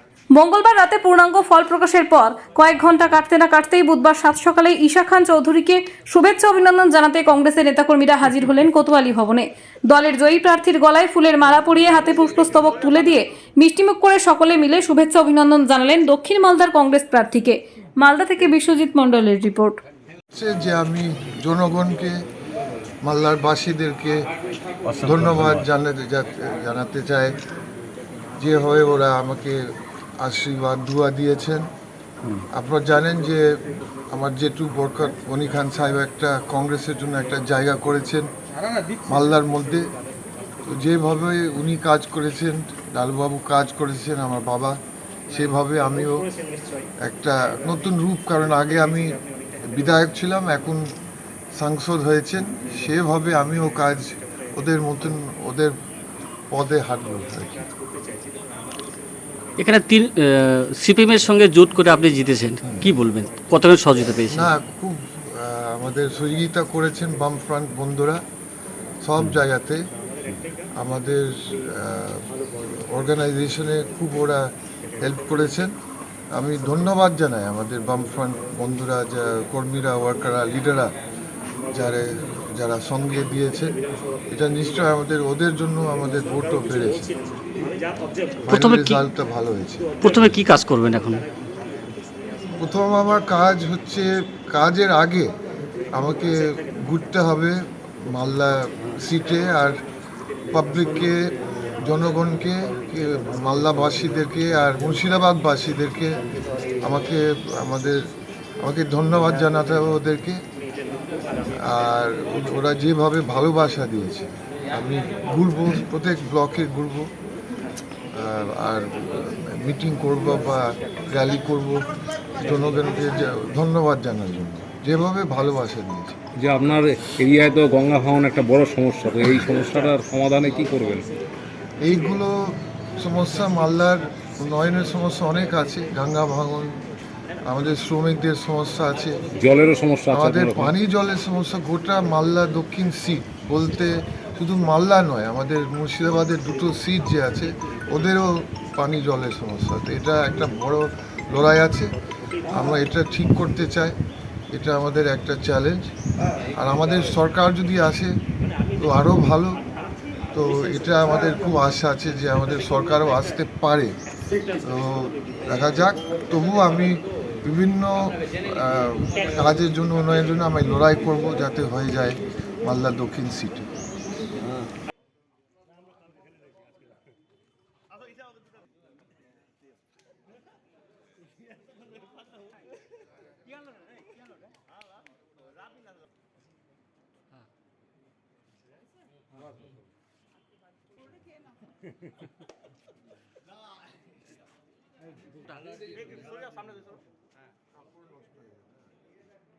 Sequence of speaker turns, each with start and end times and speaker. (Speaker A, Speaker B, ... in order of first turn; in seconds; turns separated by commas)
Speaker A: 0.3-19.8, Speaker B: 20.3-22.2, Speaker B: 23.0-24.2, Speaker C: 24.9-25.6, Speaker B: 25.0-27.4, Speaker B: 28.4-31.7, Speaker B: 32.5-38.3, Speaker B: 39.1-39.9, Speaker B: 40.7-44.8, Speaker B: 45.3-46.2, Speaker B: 47.0-49.2, Speaker B: 49.7-50.9, Speaker B: 51.6-55.8, Speaker B: 56.5-57.7, Speaker C: 59.6-64.5, Speaker B: 62.6-62.9, Speaker B: 64.3-68.2, Speaker B: 69.0-69.8, Speaker B: 70.8-74.5, Speaker B: 75.0-75.7, Speaker B: 76.3-80.9, Speaker B: 81.7-83.8, Speaker B: 84.3-87.1, Speaker B: 88.5-89.9, Speaker C: 88.5-89.1, Speaker C: 90.0-91.2, Speaker B: 92.6-95.3, Speaker B: 95.9-97.6, Speaker B: 98.1-99.8, Speaker B: 100.5-106.2, Speaker B: 106.8-108.0, Speaker B: 108.6-110.4, Speaker B: 111.5-117.1, Speaker B: 118.1-121.9, Speaker B: 122.4-126.2, Speaker D: 126.4-131.1, Speaker B: 131.8-136.8, Speaker B: 137.5-139.2, Speaker D: 139.4-140.7, Speaker B: 140.1-151.9, Speaker B: 152.5-153.9, Speaker B: 154.5-155.9, Speaker B: 156.6-158.1, Speaker B: 158.8-159.6, Speaker B: 160.3-164.0, Speaker B: 164.6-173.7